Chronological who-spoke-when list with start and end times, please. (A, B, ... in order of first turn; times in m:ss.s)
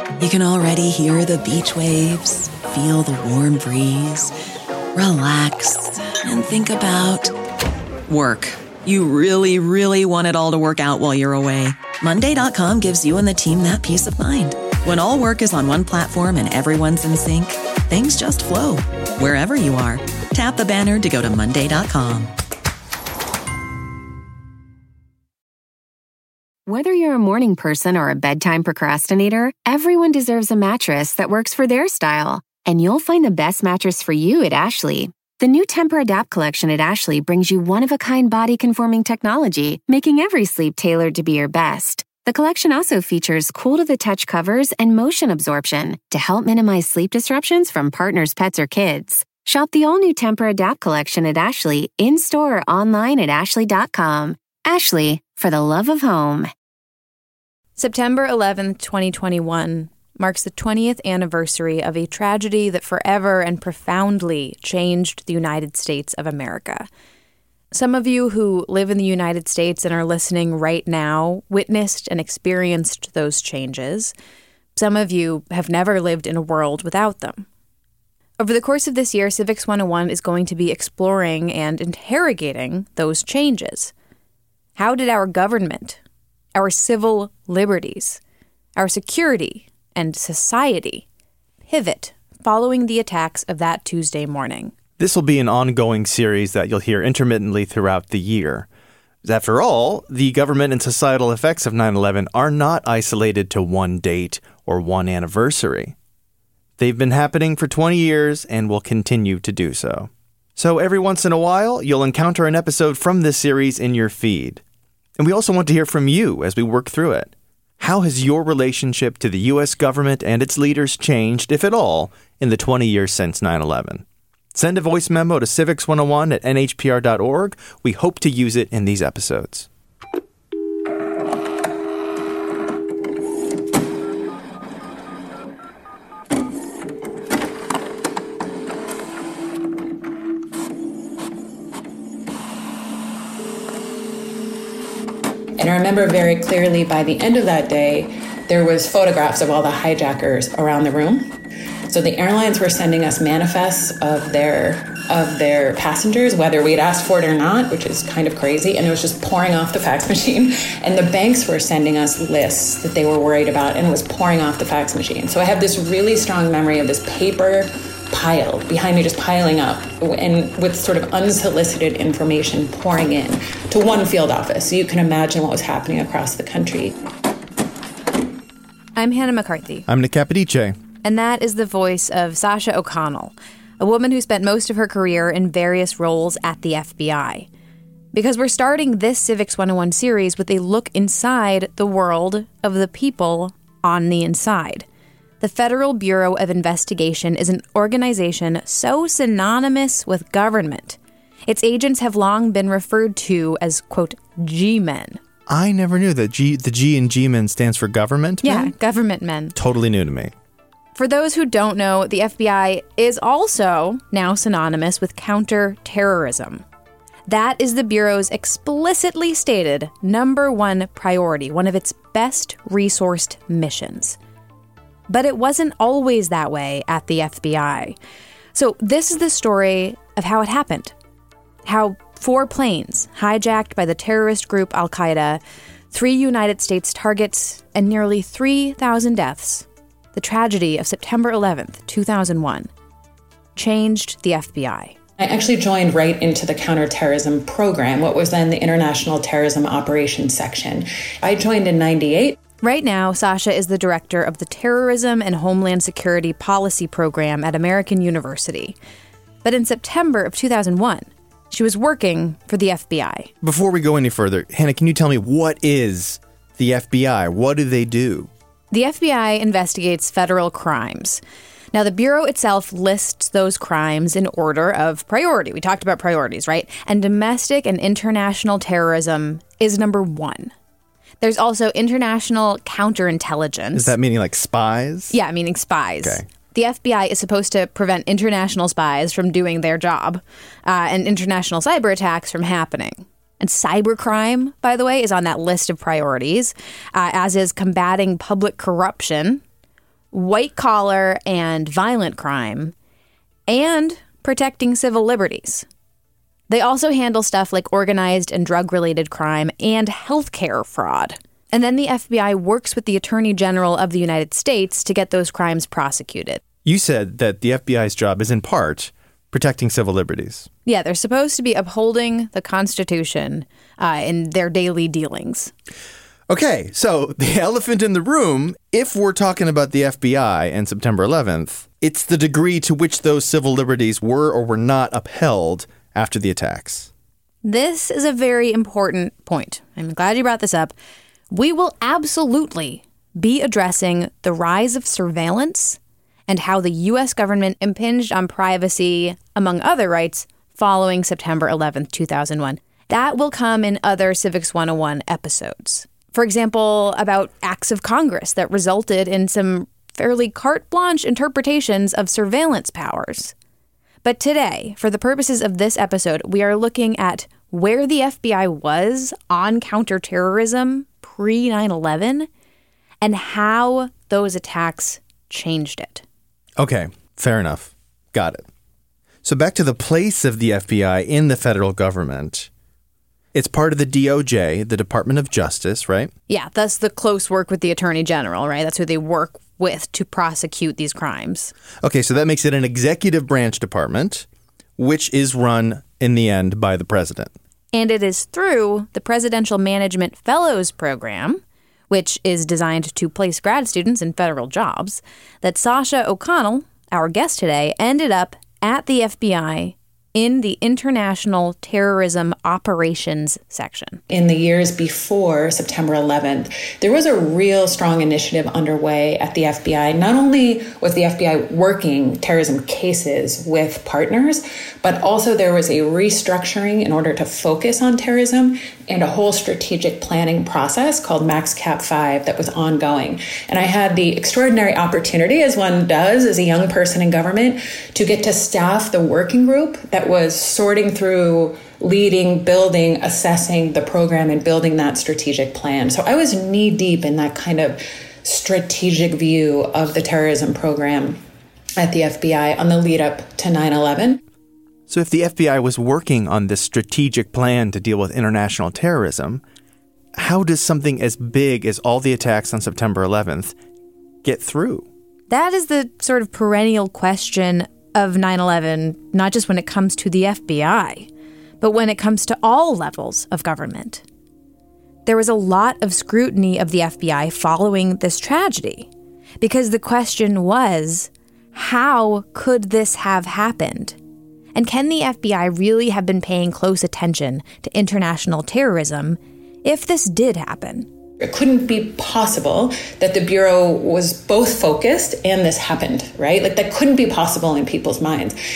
0:00.2-0:04.3 A
0:05.0-0:07.3 A
0:08.1-0:22.3 A
0:26.7-0:56.5 B
0:57.8-1:06.9 C
1:07.7-1:14.1 C
1:14.8-1:17.5 C
1:18.4-1:23.9 C
1:24.8-1:26.0 C
1:26.6-1:28.2 C
1:28.8-1:31.0 C
1:31.7-1:34.7 C
1:35.0-1:38.7 D
1:39.2-1:46.0 D
1:46.8-1:54.6 D
1:55.2-2:09.7 D
2:25.6-2:31.3 E
2:31.9-2:57.0 E
2:59.0-2:59.9 C
2:59.9-3:00.8 D
3:01.0-3:07.5 C
3:08.1-3:14.8 C
3:15.4-3:25.2 C
3:25.5-3:28.7 D
3:28.4-3:29.6 C
3:29.6-3:30.3 D
3:31.0-3:36.6 C
3:37.3-3:44.2 C
3:45.1-3:48.0 C
3:48.6-3:50.9 C
3:51.6-3:55.4 C
3:55.9-4:02.7 C
4:03.6-4:04.9 C
4:05.2-4:12.4 E
4:12.6-4:18.8 C
4:19.4-4:23.3 C
4:23.4-4:28.3 D
4:28.7-4:31.2 C
4:31.7-4:40.5 C
4:41.2-4:43.9 C
4:43.7-4:45.2 D
4:45.1-4:59.4 C
4:46.0-4:46.3 D
5:00.1-5:02.7 C
5:03.5-5:05.7 C
5:06.5-5:16.4 C
5:16.6-5:20.5 D
5:20.7-5:25.5 C
5:26.3-5:36.9 D
5:37.4-5:40.7 C
5:41.3-6:03.3 C
6:04.0-6:12.3 C
6:13.0-6:16.0 C
6:16.6-6:18.5 D
6:19.2-6:22.5 D
6:23.3-6:26.1 D
6:26.3-6:31.5 C
6:31.8-6:34.3 D
6:34.8-6:37.3 D
6:37.7-6:54.0 C
6:54.1-7:31.2 E
7:31.8-7:34.2 E
7:34.9-7:39.4 D
7:40.2-7:43.6 D
7:44.2-7:44.9 D
7:45.3-7:51.1 C
7:51.6-7:54.0 C
7:55.1-7:58.9 C
7:59.4-8:04.0 C
8:04.6-8:10.9 C
8:11.2-8:18.4 E